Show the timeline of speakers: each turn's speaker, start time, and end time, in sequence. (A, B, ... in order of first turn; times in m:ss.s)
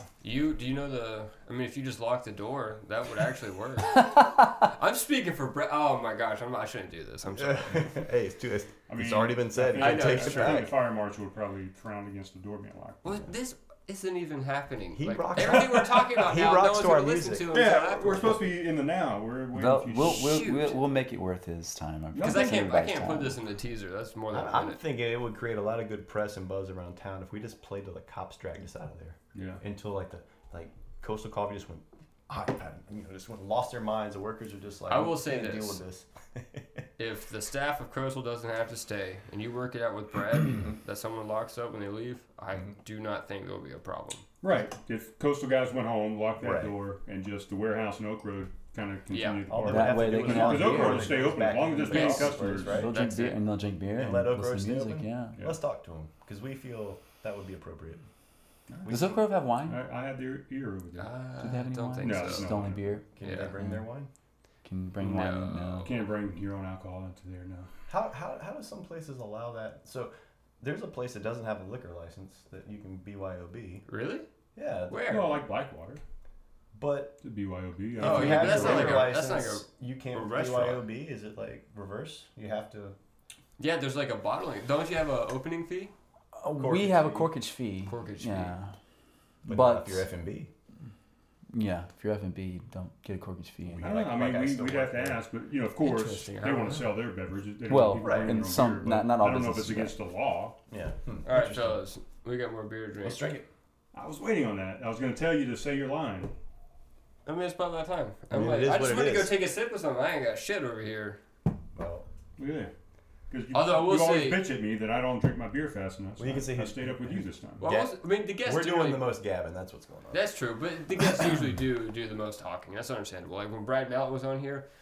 0:00.2-0:07.9 A
0:07.4-0:10.7 B
0:08.9-0:13.3 C
0:09.8-0:10.7 A
0:13.0-0:18.4 A
0:15.0-0:17.6 B
0:17.5-0:20.4 C
0:19.5-0:23.4 D
0:20.0-0:20.8 A
0:22.1-0:22.6 C
0:22.2-0:24.8 A
0:24.3-0:36.8 B
0:29.3-0:29.6 C
0:34.9-0:35.8 A
0:37.0-0:44.3 A
0:44.4-0:52.9 C
0:46.4-0:46.7 B
0:49.1-0:49.4 A
0:49.5-0:52.9 B
0:49.6-0:51.3 D
0:51.9-0:53.4 A
0:52.6-0:55.4 D
0:54.0-0:58.0 B
0:58.7-0:59.1 C
0:58.8-0:59.2 B
0:58.9-0:59.8 D
0:59.6-1:01.1 C
1:01.0-1:02.6 A
1:01.4-1:03.1 D
1:02.0-1:02.9 C
1:03.2-1:04.1 B
1:03.2-1:03.5 A
1:03.6-1:03.8 D
1:04.6-1:05.9 D
1:05.0-1:06.0 A
1:05.8-1:07.7 C
1:07.9-1:13.8 B
1:13.9-1:14.3 A
1:14.6-1:15.3 B
1:14.9-1:15.4 A
1:15.1-1:16.0 C
1:16.7-1:17.2 B
1:17.2-1:19.1 C
1:18.0-1:23.0 B
1:18.0-1:20.9 A
1:23.6-1:25.9 A
1:26.4-1:28.8 D
1:26.6-1:27.3 B
1:27.9-1:28.5 A
1:29.5-1:30.1 D
1:29.5-1:30.5 B
1:31.5-1:34.0 D
1:33.7-1:35.2 B
1:33.8-1:40.6 C
1:35.8-1:36.9 A
1:36.4-1:36.7 B
1:37.7-1:40.0 D
1:38.0-1:38.6 B
1:40.7-1:41.8 B
1:41.2-1:43.3 A
1:43.0-1:43.5 B
1:43.9-1:46.3 C
1:47.3-1:51.2 A
1:48.3-1:49.3 B
1:51.7-1:52.1 B
1:52.4-1:52.7 C
1:53.3-1:57.7 C
1:53.5-1:54.4 A
1:56.2-2:00.3 B
1:57.6-1:59.1 A
2:00.1-2:04.7 A